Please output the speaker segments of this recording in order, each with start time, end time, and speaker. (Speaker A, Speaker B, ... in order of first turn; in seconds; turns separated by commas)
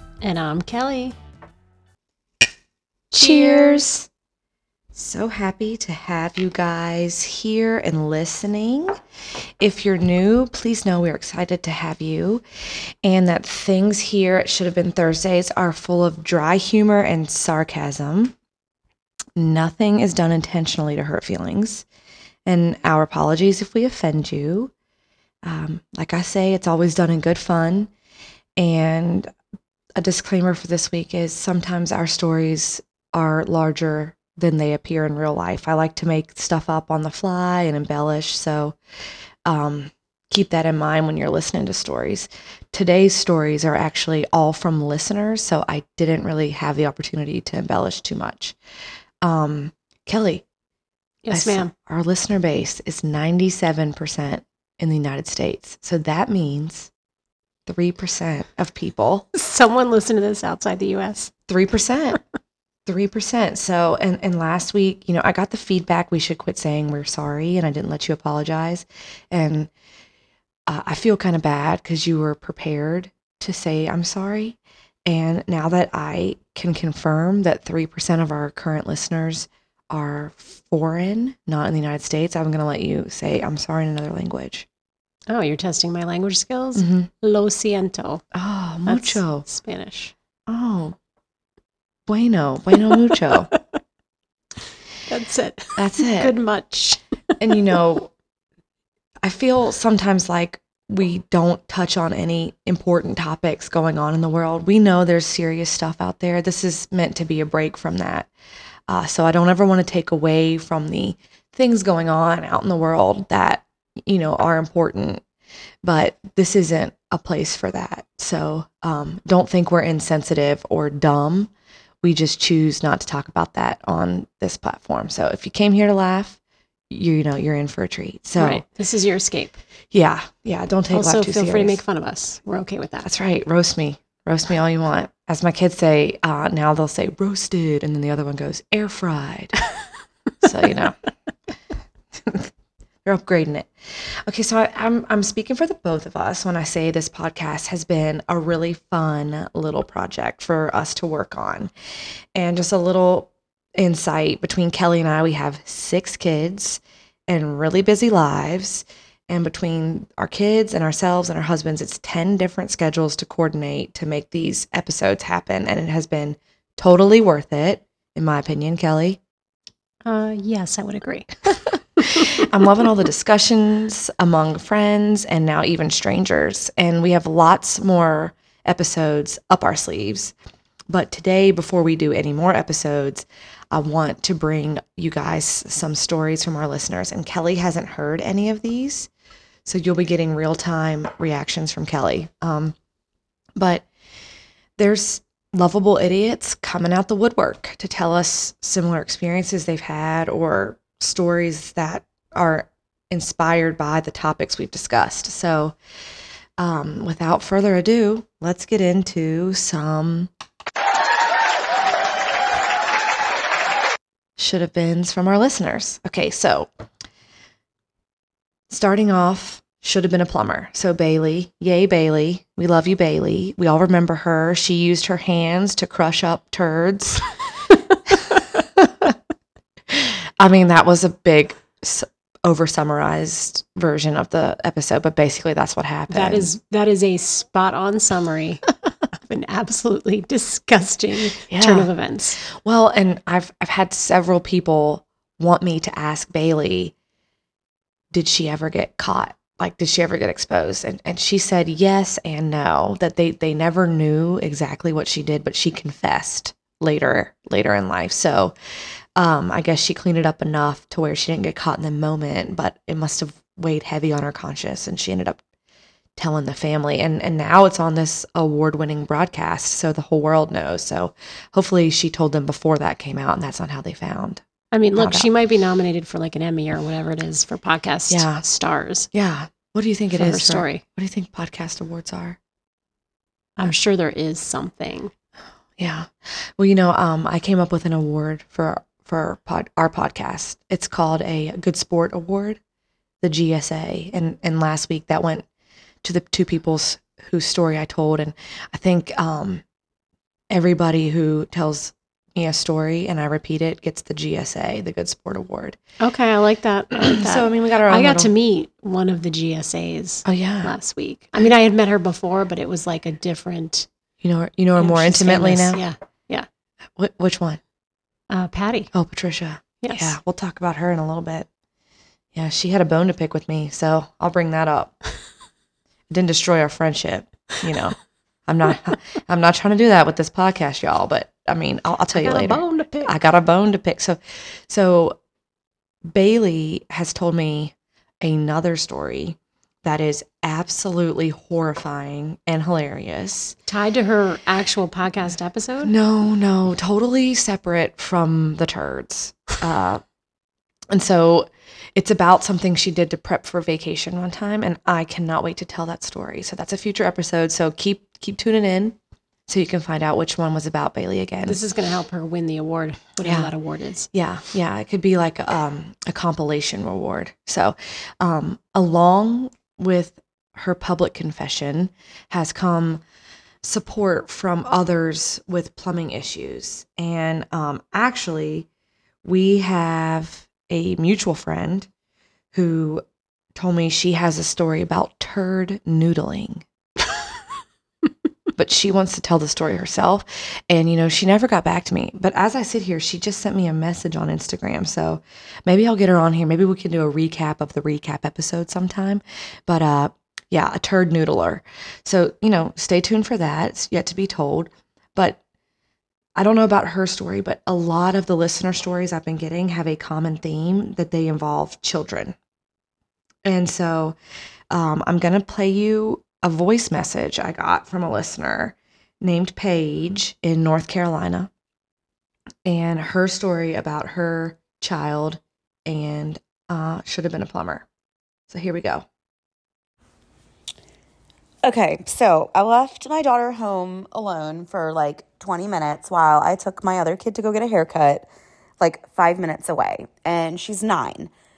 Speaker A: 0.2-1.2, Speaker A: 3.1-3.9, Speaker B: 3.2-4.1, Speaker B: 4.9-8.9, Speaker B: 9.6-12.4, Speaker B: 13.0-18.3, Speaker B: 19.4-21.9, Speaker B: 22.5-24.7, Speaker B: 25.4-27.9, Speaker B: 28.6-29.3, Speaker B: 30.0-38.8, Speaker B: 39.5-48.6, Speaker B: 49.2-50.4, Speaker A: 51.2-51.7, Speaker B: 51.3-56.9, Speaker B: 57.7-59.3, Speaker A: 59.3-61.3, Speaker B: 61.5-62.2, Speaker B: 62.9-69.7, Speaker B: 70.7-84.7, Speaker A: 85.3-88.2, Speaker B: 86.8-87.1, Speaker B: 88.3-89.5, Speaker A: 88.9-90.1, Speaker B: 90.5-91.0, Speaker B: 92.1-93.5, Speaker A: 92.9-93.6, Speaker A: 95.1-97.6, Speaker B: 95.8-96.3, Speaker B: 97.4-98.1, Speaker B: 99.2-108.3, Speaker B: 108.9-115.2, Speaker B: 115.8-121.5, Speaker B: 122.0-126.4, Speaker B: 126.9-128.6, Speaker A: 128.4-129.6, Speaker B: 129.9-131.8, Speaker A: 130.9-133.1, Speaker B: 133.0-139.6, Speaker B: 140.4-141.0, Speaker B: 142.2-142.5, Speaker B: 143.1-151.7, Speaker B: 152.3-169.2, Speaker A: 170.1-172.3, Speaker B: 172.1-180.3, Speaker B: 180.9-189.1, Speaker B: 189.7-192.8, Speaker B: 193.6-193.9, Speaker B: 194.8-205.8, Speaker B: 206.6-210.3, Speaker B: 214.4-216.7, Speaker B: 218.7-227.3, Speaker B: 228.1-229.2, Speaker B: 229.9-236.5, Speaker A: 236.1-238.6, Speaker A: 239.2-242.4, Speaker B: 241.5-241.9, Speaker B: 242.4-246.9, Speaker B: 248.1-258.5, Speaker B: 259.2-265.4, Speaker B: 266.2-274.4, Speaker A: 274.7-279.1, Speaker B: 274.9-275.3, Speaker B: 278.1-278.4, Speaker B: 279.1-282.4, Speaker A: 280.1-280.8, Speaker A: 283.6-285.1, Speaker B: 285.8-292.6, Speaker B: 293.2-295.4, Speaker B: 296.0-299.6, Speaker B: 300.5-305.8, Speaker A: 306.0-313.9, Speaker B: 307.0-308.3, Speaker B: 310.2-310.7, Speaker B: 314.2-315.8, Speaker A: 314.8-316.5, Speaker B: 317.0-317.6, Speaker A: 318.3-318.9, Speaker B: 318.9-321.5, Speaker A: 319.8-320.1, Speaker B: 322.3-324.9, Speaker B: 326.1-327.9, Speaker B: 328.5-335.2, Speaker A: 332.1-333.1, Speaker B: 336.1-343.6, Speaker A: 343.7-345.9, Speaker B: 345.8-350.0, Speaker B: 350.9-358.9, Speaker B: 359.5-361.6, Speaker A: 361.4-364.1, Speaker B: 363.2-363.5, Speaker B: 364.1-373.0, Speaker B: 373.6-378.7, Speaker B: 379.2-381.9, Speaker B: 382.5-383.0, Speaker B: 383.6-386.6, Speaker B: 388.6-405.4, Speaker B: 406.4-412.4, Speaker B: 413.4-414.2, Speaker B: 414.7-421.5, Speaker B: 422.6-427.9, Speaker B: 428.5-429.1, Speaker C: 431.6-438.2, Speaker C: 438.8-441.3